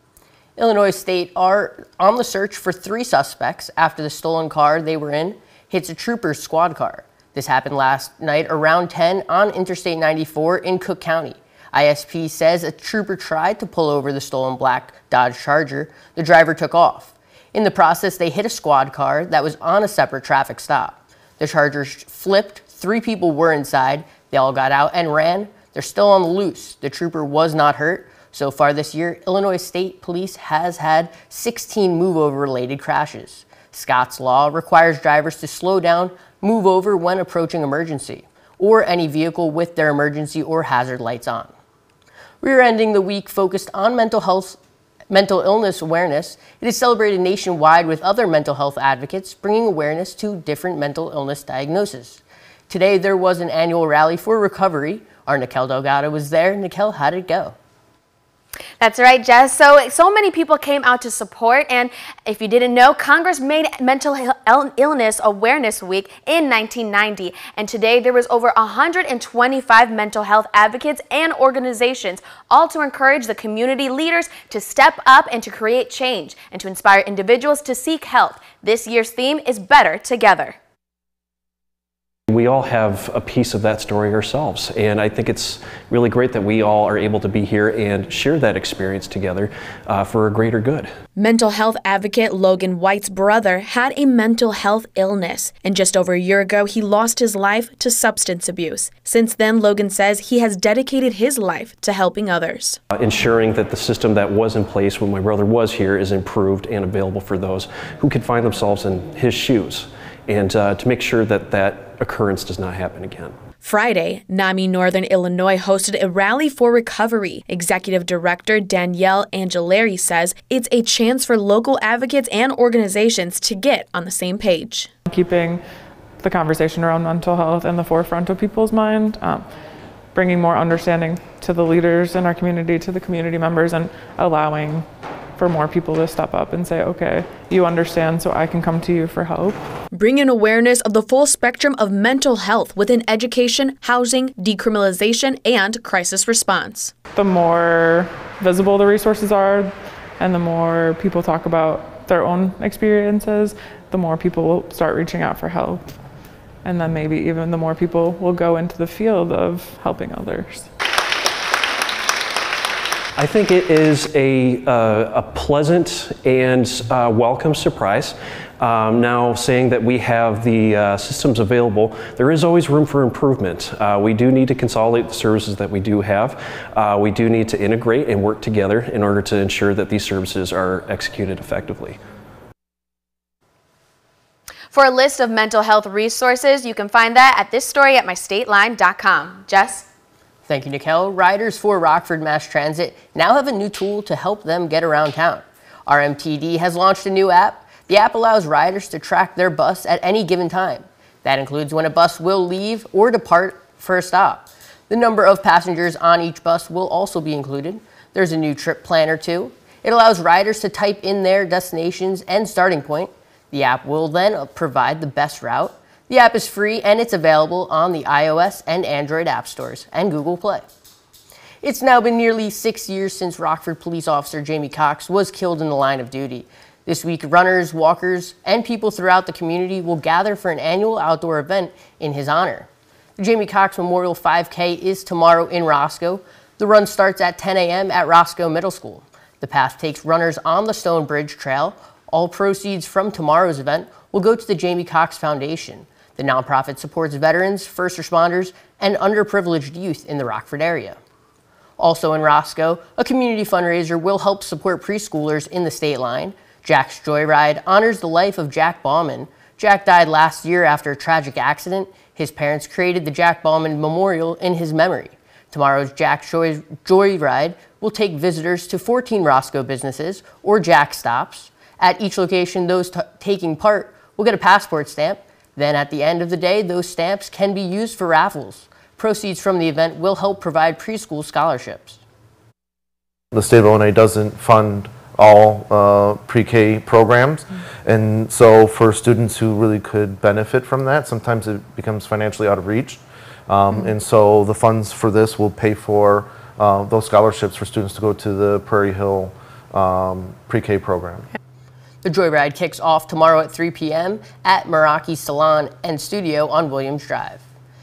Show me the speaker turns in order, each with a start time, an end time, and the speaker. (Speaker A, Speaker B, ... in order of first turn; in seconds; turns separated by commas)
Speaker A: 0.6-41.5, Speaker A: 42.4-44.6, Speaker A: 45.1-57.6, Speaker B: 58.8-80.6, Speaker C: 82.3-90.9, Speaker B: 91.2-102.8, Speaker C: 102.9-113.4, Speaker B: 113.6-124.9, Speaker D: 125.1-125.6, Speaker D: 126.2-129.5, Speaker D: 130.1-139.6, Speaker B: 139.9-146.9, Speaker D: 147.1-155.9, Speaker D: 156.6-160.7, Speaker C: 163.2-182.0, Speaker B: 184.7-189.9, Speaker A: 190.5-220.7, Speaker A: 221.6-251.0, Speaker A: 251.8-282.0, Speaker E: 283.3-301.3, Speaker A: 302.0-307.4